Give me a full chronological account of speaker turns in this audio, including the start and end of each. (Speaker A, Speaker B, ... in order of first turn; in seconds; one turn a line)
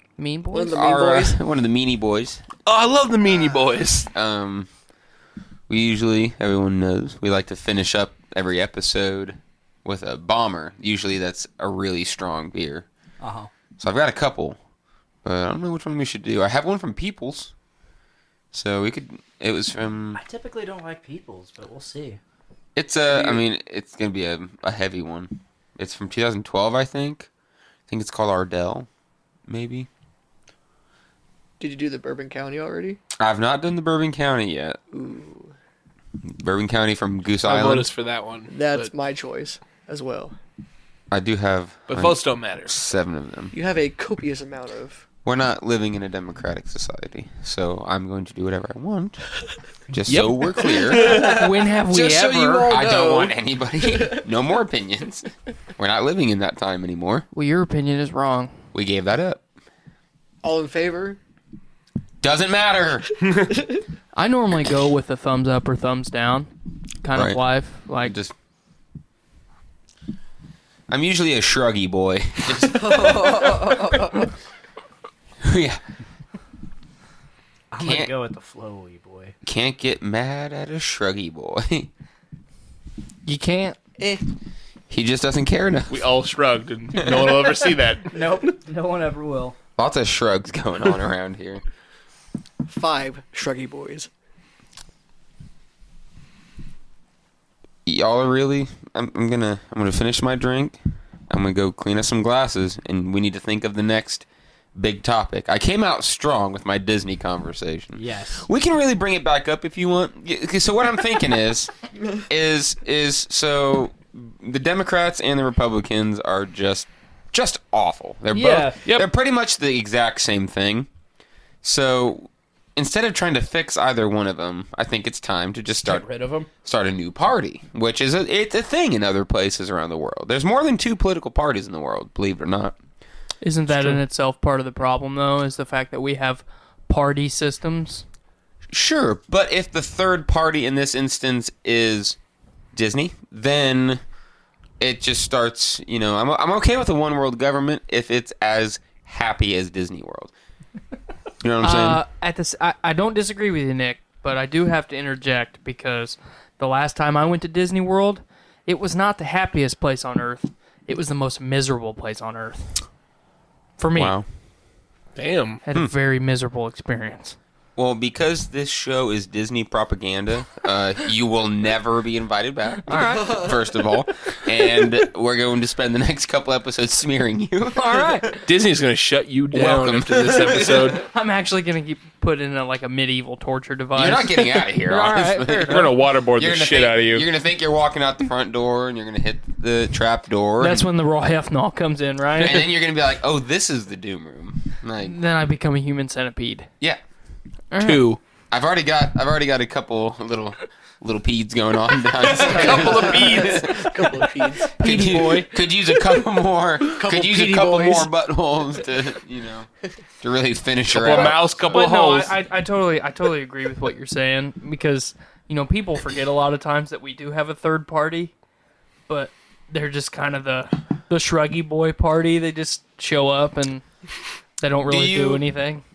Speaker A: 0.2-0.8
Speaker B: 0.5-1.4
Speaker C: 0.7-2.4
Speaker D: 2.6-4.1
Speaker C: 4.1-4.7
Speaker C: 5.7-12.8
Speaker E: 13.2-13.5
Speaker C: 13.8-14.6
Speaker C: 15.2-17.5
Speaker C: 18.5-20.2
Speaker E: 20.1-22.2
Speaker C: 22.8-27.3
Speaker B: 23.1-23.4
Speaker C: 27.9-28.9
Speaker C: 29.5-29.9
Speaker B: 31.6-33.0
Speaker C: 33.2-34.8
Speaker B: 34.9-35.5
Speaker C: 36.4-37.9
Speaker D: 37.4-38.9
Speaker B: 38.5-40.4
Speaker C: 41.1-43.5
Speaker D: 41.9-42.7
Speaker B: 43.5-45.0
Speaker C: 45.2-49.2
Speaker C: 49.9-51.3
Speaker D: 50.1-51.2
Speaker B: 50.6-54.2
Speaker A: 51.1-52.7
Speaker C: 52.5-57.3
Speaker A: 57.3-58.5
Speaker C: 58.7-59.4
Speaker B: 60.4-61.2
Speaker C: 62.2-63.1
Speaker A: 64.1-66.5
Speaker A: 67.0-68.1
Speaker C: 67.1-67.4
Speaker C: 68.0-68.3
Speaker C: 70.9-73.5
Speaker B: 72.6-74.3
Speaker C: 75.4-75.8
Speaker E: 77.7-79.3
Speaker C: 77.8-78.1
Speaker C: 79.4-81.9
Speaker A: 83.2-83.8
Speaker B: 84.0-84.2
Speaker C: 84.9-86.1
Speaker D: 85.9-88.2
Speaker C: 87.0-87.2
Speaker E: 88.1-89.6
Speaker C: 89.8-91.6
Speaker B: 92.7-94.1
Speaker C: 97.8-100.8
Speaker C: 101.3-111.7
Speaker E: 107.9-108.5
Speaker C: 112.3-120.9
Speaker E: 118.3-118.8
Speaker C: 121.6-126.0
Speaker E: 125.7-126.5
Speaker C: 126.6-132.8
Speaker A: 133.4-138.0
Speaker C: 138.7-142.2
Speaker C: 142.7-144.0
Speaker C: 144.8-150.3
Speaker C: 151.4-152.0
Speaker A: 151.6-162.7
Speaker A: 163.8-164.1
Speaker C: 163.9-164.2
Speaker D: 165.1-165.6
Speaker A: 165.6-167.3
Speaker C: 167.8-178.2
Speaker A: 172.8-173.4
Speaker B: 172.9-173.5
Speaker A: 177.7-178.4
Speaker D: 178.4-181.1
Speaker C: 179.5-181.0
Speaker A: 181.0-185.9
Speaker C: 183.9-190.9
Speaker D: 185.7-187.3
Speaker A: 190.6-192.6
Speaker C: 192.4-195.2
Speaker A: 195.0-196.7
Speaker A: 197.7-198.1
Speaker D: 197.8-198.2
Speaker C: 198.5-209.7
Speaker B: 202.4-204.7
Speaker A: 202.5-202.8
Speaker D: 202.5-203.6
Speaker A: 204.7-205.5
Speaker B: 206.9-208.1
Speaker C: 210.2-211.7
Speaker D: 210.9-212.3
Speaker A: 211.7-218.3
Speaker A: 219.1-223.8
Speaker A: 224.6-225.8
Speaker C: 224.9-225.4